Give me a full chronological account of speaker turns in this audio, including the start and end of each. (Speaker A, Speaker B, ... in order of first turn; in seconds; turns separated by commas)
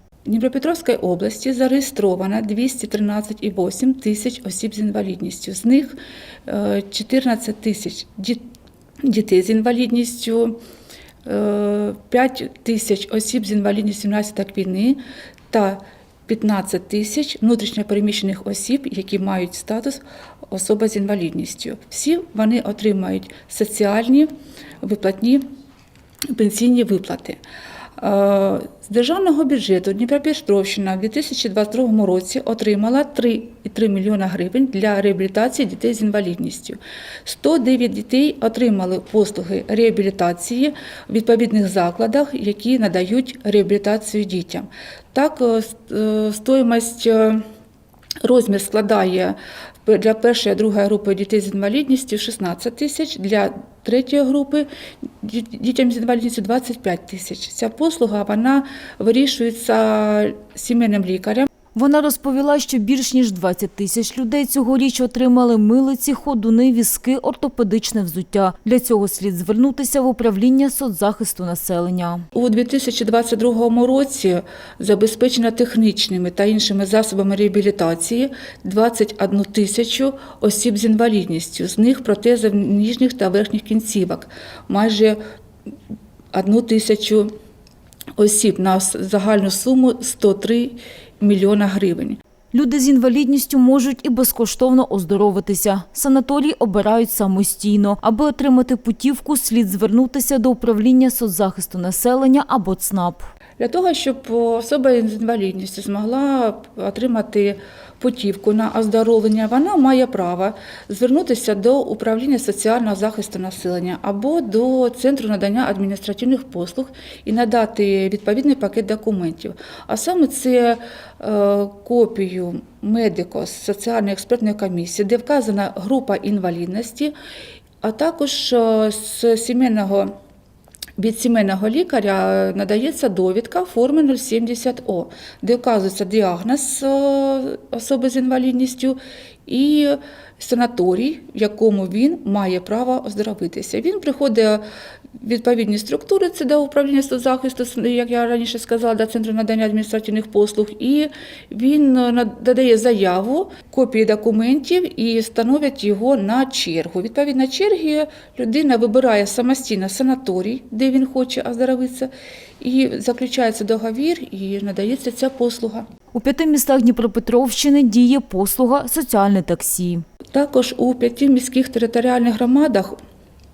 Speaker A: 0.2-8.4, Speaker A: 9.0-10.6, Speaker A: 11.2-24.3, Speaker A: 24.8-25.4, Speaker A: 26.3-27.4, Speaker A: 28.0-47.4, Speaker A: 48.2-54.7, Speaker A: 55.2-61.5, Speaker B: 61.7-72.2, Speaker A: 72.3-85.2, Speaker A: 86.3-87.3, Speaker A: 88.2-92.2, Speaker B: 92.5-103.2, Speaker A: 103.6-127.1, Speaker A: 127.8-130.1, Speaker A: 131.0-144.6, Speaker A: 145.2-165.8, Speaker B: 166.1-170.0, Speaker A: 170.3-173.0